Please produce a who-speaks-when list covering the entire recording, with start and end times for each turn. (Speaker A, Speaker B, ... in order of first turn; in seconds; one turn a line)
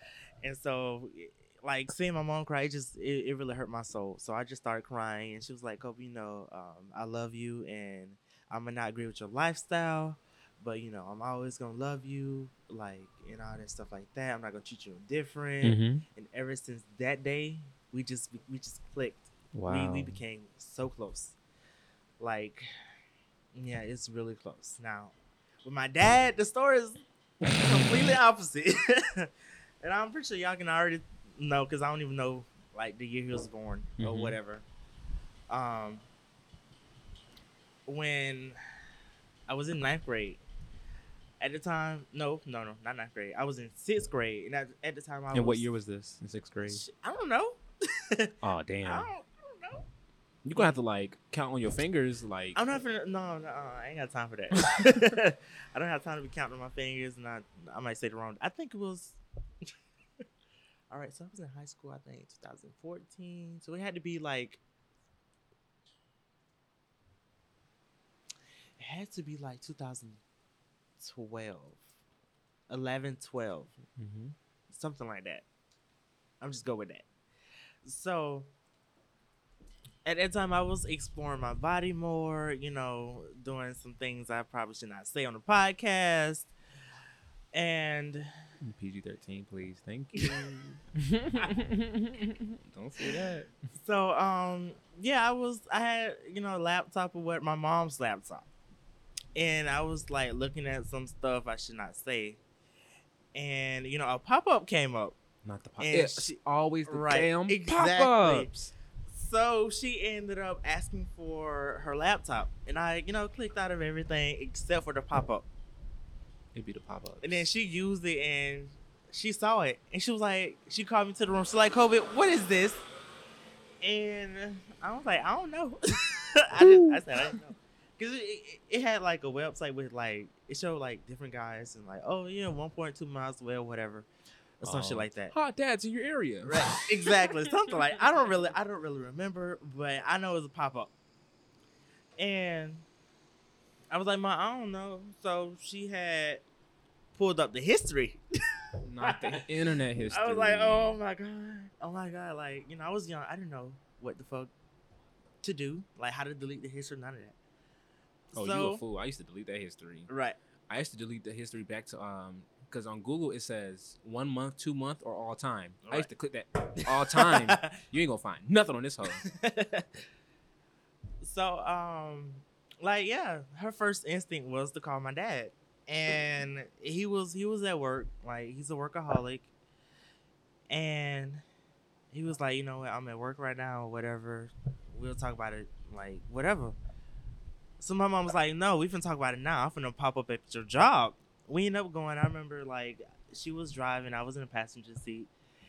Speaker A: 0.4-21.4
Speaker B: 15.6-16.0
Speaker B: 19.5-20.2
Speaker A: 22.2-22.7
Speaker A: 23.5-34.6
Speaker B: 34.0-34.4
Speaker A: 35.5-36.1
Speaker A: 37.9-38.6
Speaker A: 39.5-40.4
Speaker A: 41.4-45.7
Speaker B: 45.3-46.9
Speaker A: 46.6-48.3
Speaker B: 48.4-49.1
Speaker A: 48.9-49.9
Speaker B: 50.4-52.6
Speaker A: 52.6-59.7
Speaker B: 54.6-55.1
Speaker A: 60.9-64.6
Speaker A: 68.8-70.2
Speaker A: 71.0-71.8
Speaker A: 72.7-73.7
Speaker B: 74.0-74.3
Speaker A: 74.7-75.5
Speaker A: 76.4-77.1
Speaker A: 77.8-78.5
Speaker A: 80.0-86.5
Speaker A: 87.5-88.3
Speaker B: 88.6-93.6
Speaker A: 90.2-90.4
Speaker A: 93.7-98.5
Speaker A: 99.3-102.4
Speaker A: 103.3-105.2
Speaker B: 105.5-108.7
Speaker A: 105.8-106.4
Speaker A: 106.9-108.5
Speaker A: 109.1-115.5
Speaker B: 116.5-117.5
Speaker A: 117.2-122.8
Speaker A: 123.8-134.1
Speaker B: 126.6-127.4
Speaker A: 134.6-135.3
Speaker B: 134.6-137.7
Speaker A: 136.5-140.9
Speaker A: 142.2-142.9
Speaker A: 143.9-146.4
Speaker A: 147.2-148.2
Speaker B: 148.8-151.0
Speaker A: 149.0-149.4
Speaker A: 150.1-154.5
Speaker A: 155.4-157.4
Speaker A: 158.3-158.8
Speaker B: 158.3-160.1
Speaker A: 160.1-160.4
Speaker B: 160.7-169.3
Speaker A: 166.8-167.7
Speaker A: 169.2-169.9
Speaker A: 171.2-179.5
Speaker A: 180.7-181.4
Speaker A: 182.1-186.8
Speaker A: 187.8-195.3